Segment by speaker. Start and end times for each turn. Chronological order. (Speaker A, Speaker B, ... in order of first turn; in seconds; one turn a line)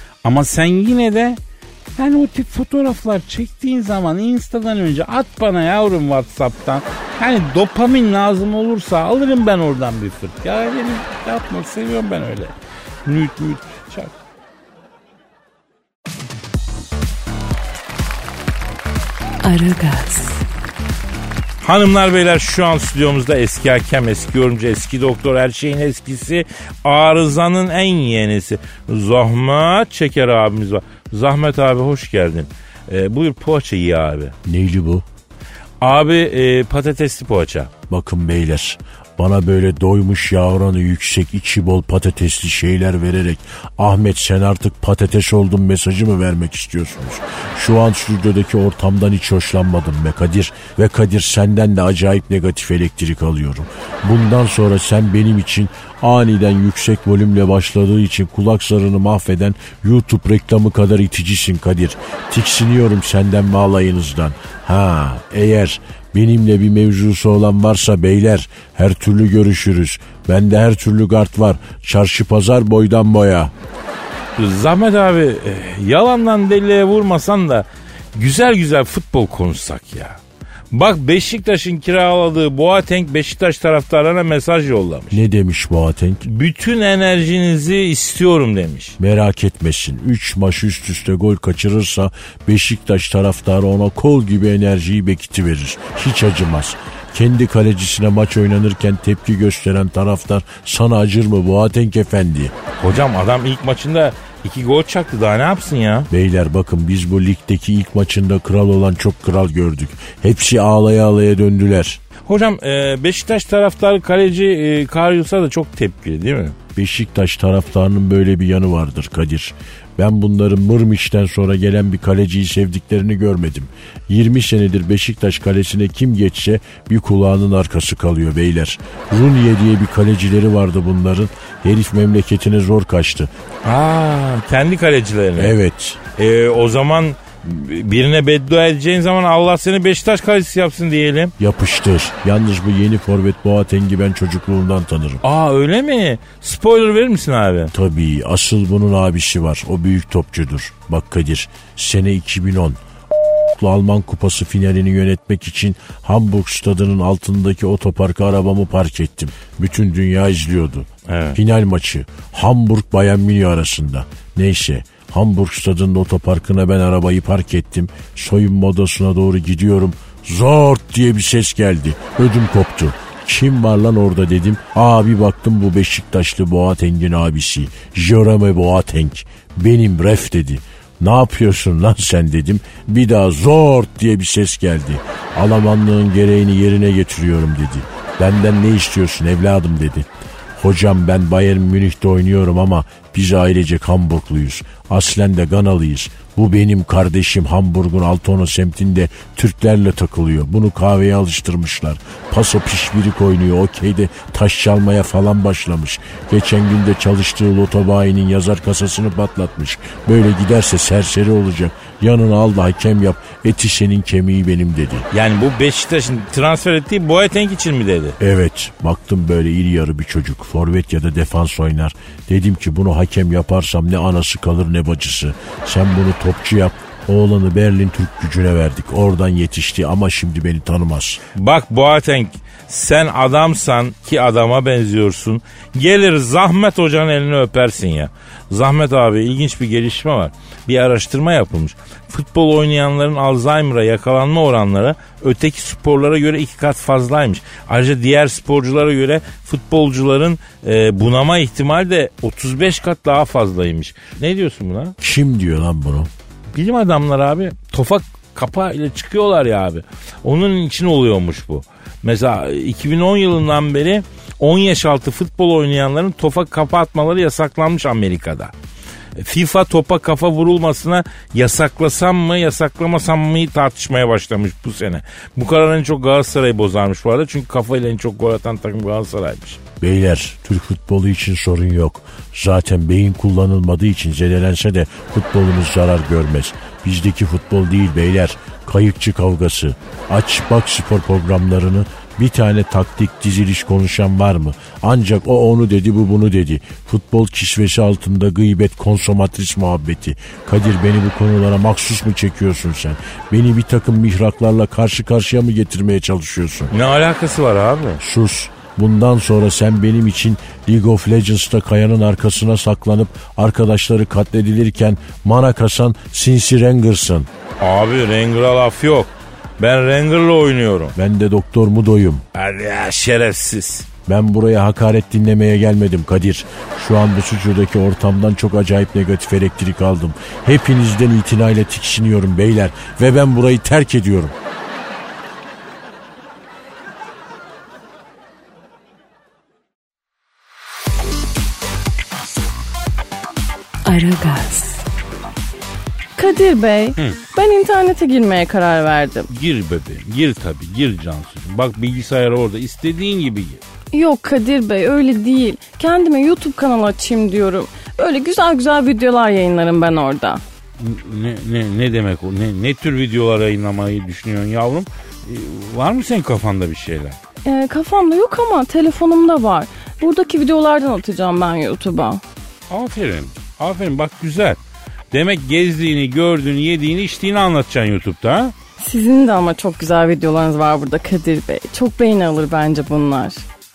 Speaker A: 0.2-1.4
Speaker A: 2.0-14.1
Speaker B: 19.4-20.4
Speaker C: 21.6-34.4
Speaker D: 34.4-35.0
Speaker C: 35.8-37.7
Speaker D: 37.9-73.5
Speaker C: 74.3-80.2
Speaker C: 80.7-85.2
Speaker D: 85.1-86.2
Speaker C: 86.2-89.0
Speaker D: 89.0-102.5
Speaker C: 102.8-106.1
Speaker D: 106.1-112.0
Speaker C: 112.2-116.6
Speaker D: 116.8-133.3
Speaker C: 133.6-135.5
Speaker D: 135.3-136.0
Speaker C: 136.2-141.3
Speaker D: 141.4-145.2
Speaker C: 145.2-147.7
Speaker D: 147.7-152.8
Speaker D: 153.5-215.1
Speaker C: 161.1-161.4
Speaker C: 215.1-218.2
Speaker D: 218.2-231.2
Speaker C: 231.3-254.9
Speaker D: 255.0-256.1
Speaker C: 256.5-268.5
Speaker C: 269.2-279.6
Speaker D: 279.8-306.7
Speaker C: 306.7-308.0
Speaker D: 308.0-317.3
Speaker C: 317.6-320.9
Speaker D: 320.9-322.2
Speaker C: 322.3-323.9
Speaker D: 324.1-334.3
Speaker B: 343.8-344.8
Speaker E: 346.1-349.3
Speaker A: 349.3-353.6
Speaker E: 353.9-360.4
Speaker A: 360.8-367.2
Speaker E: 367.4-372.2
Speaker A: 372.7-374.6
Speaker A: 375.1-378.5
Speaker E: 378.8-383.4